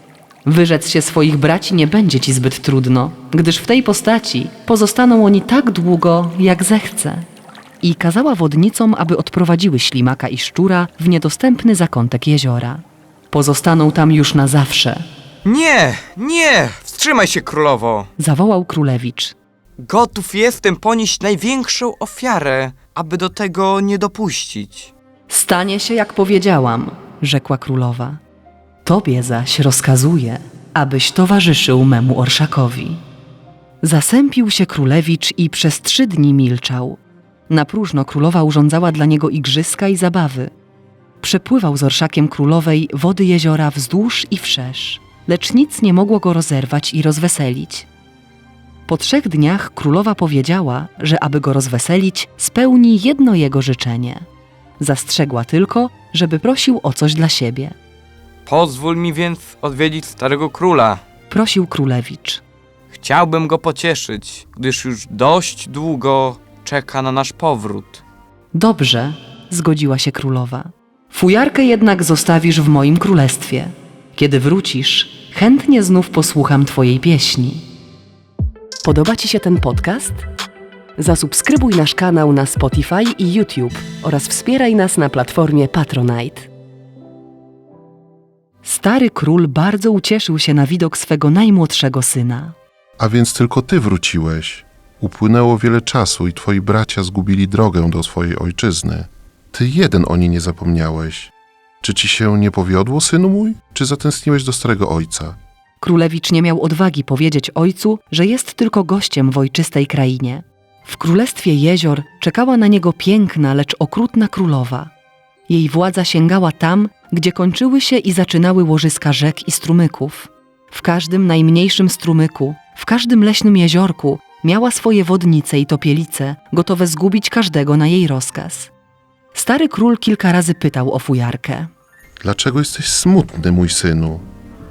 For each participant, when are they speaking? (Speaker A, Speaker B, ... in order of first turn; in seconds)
Speaker A: 0.5-7.3, 7.8-15.1, 18.2-19.4, 25.3-28.2, 28.9-33.0, 33.8-40.5, 41.2-47.9, 48.9-54.2, 54.8-57.8, 61.3-62.4, 68.5-77.7, 78.8-80.2, 81.0-86.5, 88.6-92.5, 105.8-114.9, 115.5-128.7, 129.3-131.7
Speaker B: 15.4-18.1, 19.8-24.9, 58.5-61.0, 62.9-68.0
Speaker C: 93.0-105.4, 132.2-134.2